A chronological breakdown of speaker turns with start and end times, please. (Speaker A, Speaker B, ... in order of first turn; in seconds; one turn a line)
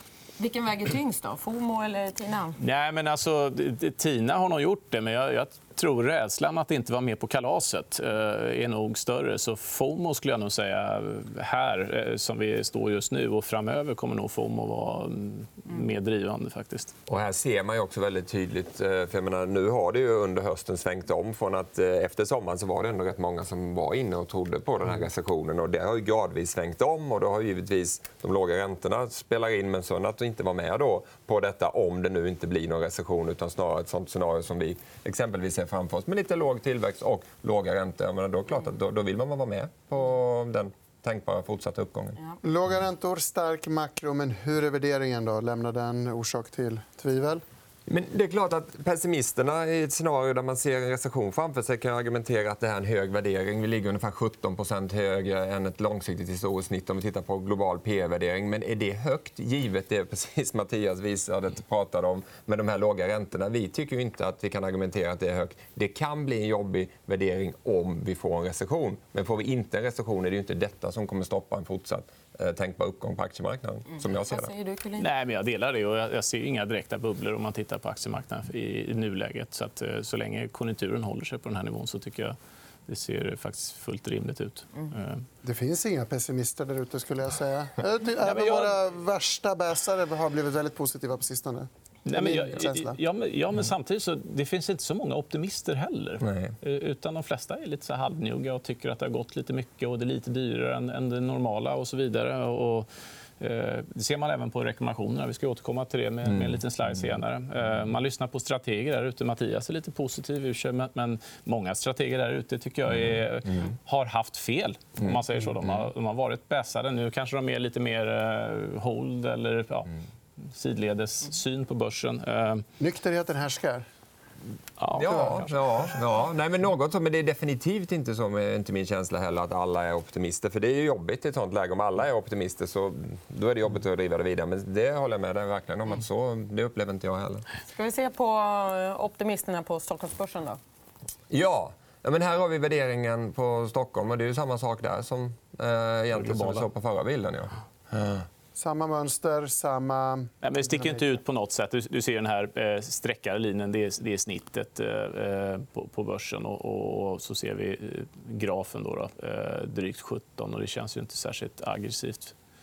Speaker A: 0.4-2.6
Speaker B: 2.6-17.0
Speaker C: 17.1-42.2
Speaker D: 42.4-47.4
Speaker C: 47.9-74.5
Speaker A: 74.3-75.1
Speaker B: 75.0-82.4
Speaker B: 82.9-85.2
Speaker D: 85.4-93.0
Speaker B: 88.2-88.8
Speaker B: 92.1-102.9
Speaker C: 96.2-96.5
Speaker B: 103.4-122.7
Speaker C: 106.3-106.6
Speaker D: 122.8-123.9
Speaker B: 124.8-125.4
Speaker C: 125.0-137.4
Speaker A: 137.7-140.6
Speaker C: 141.3-148.2
Speaker B: 146.1-146.7
Speaker D: 148.6-151.0
Speaker B: 150.4-162.3